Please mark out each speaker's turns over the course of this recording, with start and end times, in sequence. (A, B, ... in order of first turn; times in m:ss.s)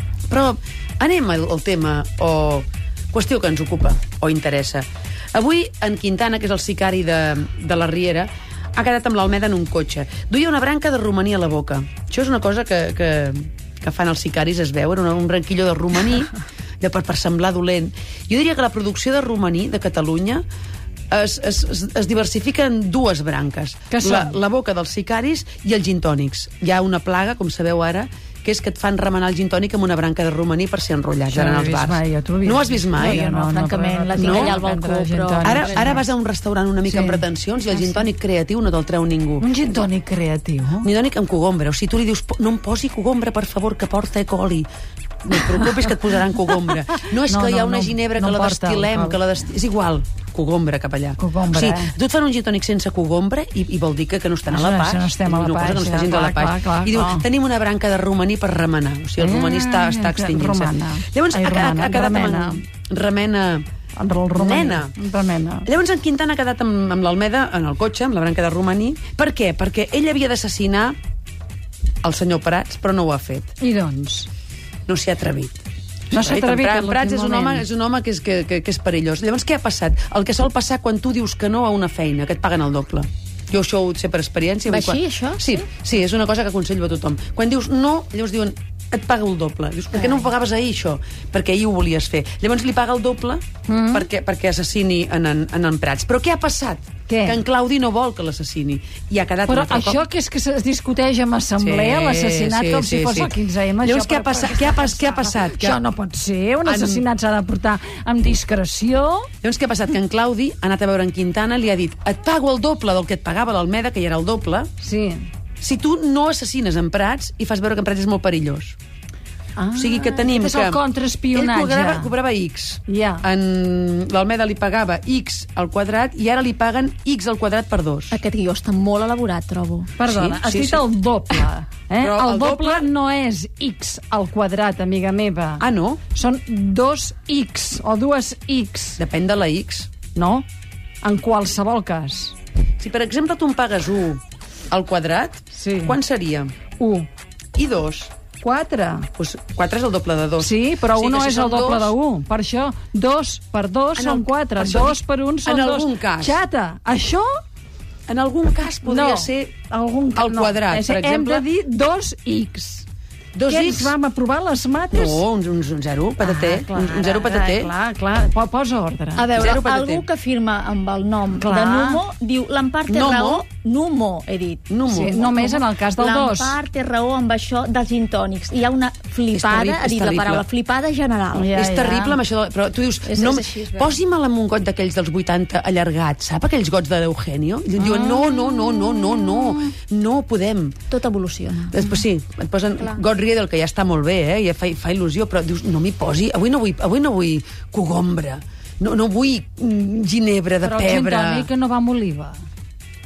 0:00.3-0:20.4 A
0:21.1-0:33.2 A
0:23.9-0:24.4 B
0:31.3-0:36.0 B
0:32.9-0:36.0 C
0:34.2-0:34.6 A
0:35.4-0:39.5 A
0:36.9-0:37.2 B
0:39.4-0:40.9 B
0:40.8-0:44.7 A
0:45.2-1:03.7 A
0:46.6-0:49.2 B
0:51.2-0:51.9 B
0:54.5-0:57.3 B
0:59.2-1:02.6 B
1:04.0-1:05.7 B
1:04.4-1:05.0 A
1:05.6-1:11.0 A
1:12.0-1:13.6 A
1:13.6-1:14.3 B
1:14.9-1:40.1 A
1:16.1-1:17.7 B
1:24.7-1:25.6 C
1:33.7-1:34.1 B
1:37.1-1:37.4 B
1:39.5-1:49.3 B
1:41.6-1:45.8 A
1:46.6-1:47.0 A
1:49.4-1:54.7 A
1:54.8-1:55.3 B
1:55.6-1:58.8 A
1:59.6-2:02.1 B
1:59.8-2:00.8 A
2:01.3-2:08.2 A
2:02.9-2:03.2 B
2:08.1-2:09.9 C
2:10.0-2:19.0 B
2:10.0-2:10.9 A
2:12.0-2:12.9 A
2:15.6-2:16.0 A
2:19.0-2:19.9 A
2:20.1-2:20.5 B
2:21.0-2:22.4 B
2:22.8-2:26.5 A
2:25.5-2:26.0 B
2:26.8-2:27.1 B
2:27.6-2:28.1 A
2:28.4-2:29.1 B
2:29.2-2:31.9 A
2:30.4-2:37.3 B
2:34.0-2:36.4 A
2:38.1-2:39.5 A
2:38.8-2:42.9 B
2:40.1-2:41.5 A
2:43.3-2:44.0 A
2:43.4-2:45.2 B
2:44.9-2:47.7 A
2:46.3-2:49.3 B
2:46.4-2:47.2 C
2:49.2-3:01.6 C
2:49.4-2:50.1 A
2:51.4-2:52.0 B
2:52.9-2:53.4 A
2:54.7-2:55.3 A
2:54.9-2:56.6 B
2:59.3-3:00.4 A
3:01.3-3:02.2 B
3:01.5-3:10.8 A
3:03.0-3:04.0 C
3:07.8-3:09.6 B
3:10.9-3:11.8 C
3:11.7-3:21.5 A
3:20.6-3:22.4 B